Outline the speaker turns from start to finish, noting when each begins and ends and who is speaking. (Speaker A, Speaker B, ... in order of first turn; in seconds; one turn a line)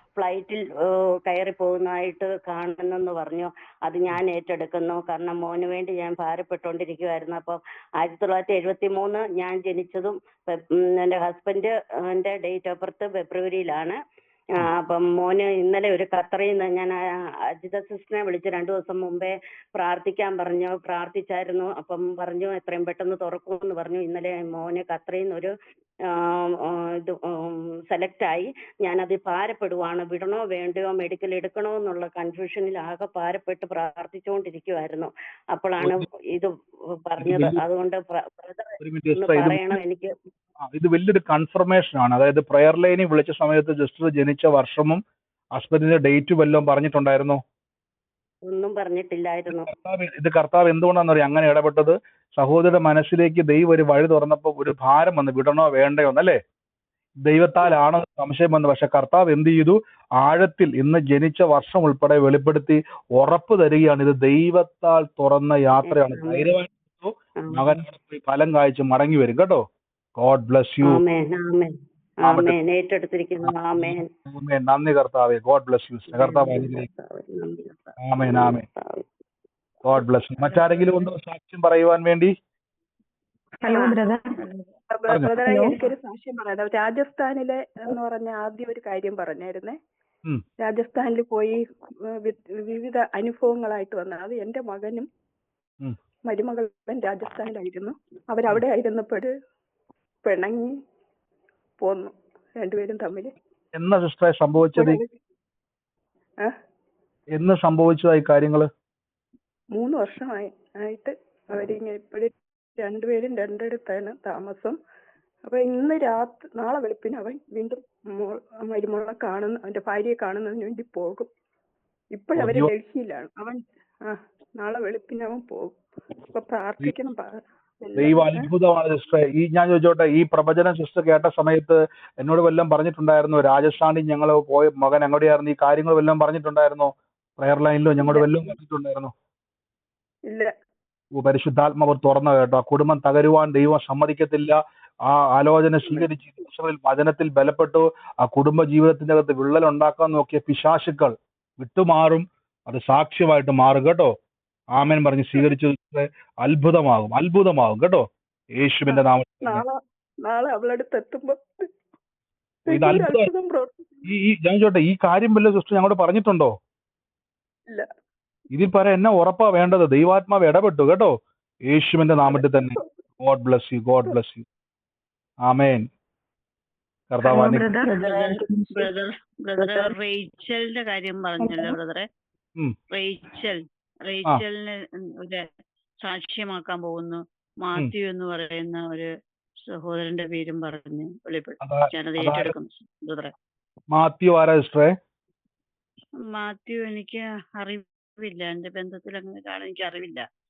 Speaker A: 0.2-14.0
Speaker A: 14.6-17.0
Speaker A: 17.6-25.5
Speaker A: 26.1-36.5
Speaker A: 37.0-40.1
Speaker B: 37.2-37.6
Speaker B: 38.8-39.8
Speaker B: 40.6-45.0
Speaker B: 45.5-47.4
Speaker A: 48.4-49.6
Speaker B: 49.5-56.4
Speaker B: 57.2-69.6
Speaker A: 65.8-66.6
Speaker A: 67.4-67.8
Speaker B: 70.2-71.0
Speaker A: 70.8-74.1
Speaker B: 72.2-72.6
Speaker B: 73.4-76.9
Speaker A: 76.1-79.0
Speaker B: 78.0-78.7
Speaker B: 79.8-82.3
Speaker A: 79.9-81.0
Speaker C: 83.6-84.4
Speaker D: 84.9-89.8
Speaker B: 85.1-85.4
Speaker C: 85.5-85.8
Speaker D: 90.6-91.6
Speaker D: 92.2-95.1
Speaker D: 96.3-99.3
Speaker D: 100.2-100.7
Speaker D: 101.8-103.3
Speaker B: 103.7-105.0
Speaker D: 104.7-105.1
Speaker B: 107.3-108.7
Speaker D: 109.8-114.8
Speaker D: 115.5-121.3
Speaker D: 122.2-123.3
Speaker B: 122.3-122.7
Speaker D: 124.1-125.8
Speaker D: 126.3-128.5
Speaker B: 128.0-139.1
Speaker D: 138.0-138.5
Speaker B: 141.1-154.1
Speaker B: 154.7-158.1
Speaker B: 158.6-159.7
Speaker D: 158.9-161.3
Speaker D: 162.7-163.9
Speaker B: 162.7-163.3
Speaker B: 164.1-166.5
Speaker B: 168.5-171.1
Speaker B: 171.7-174.4
Speaker B: 175.5-175.8
Speaker B: 177.1-177.6
Speaker C: 177.2-178.9
Speaker E: 178.8-182.1
Speaker D: 179.6-179.9
Speaker E: 182.9-183.6
Speaker E: 184.1-184.7
Speaker E: 186.0-189.1
Speaker E: 189.7-193.3
Speaker B: 191.6-192.5
Speaker B: 193.9-194.9
Speaker E: 196.3-200.2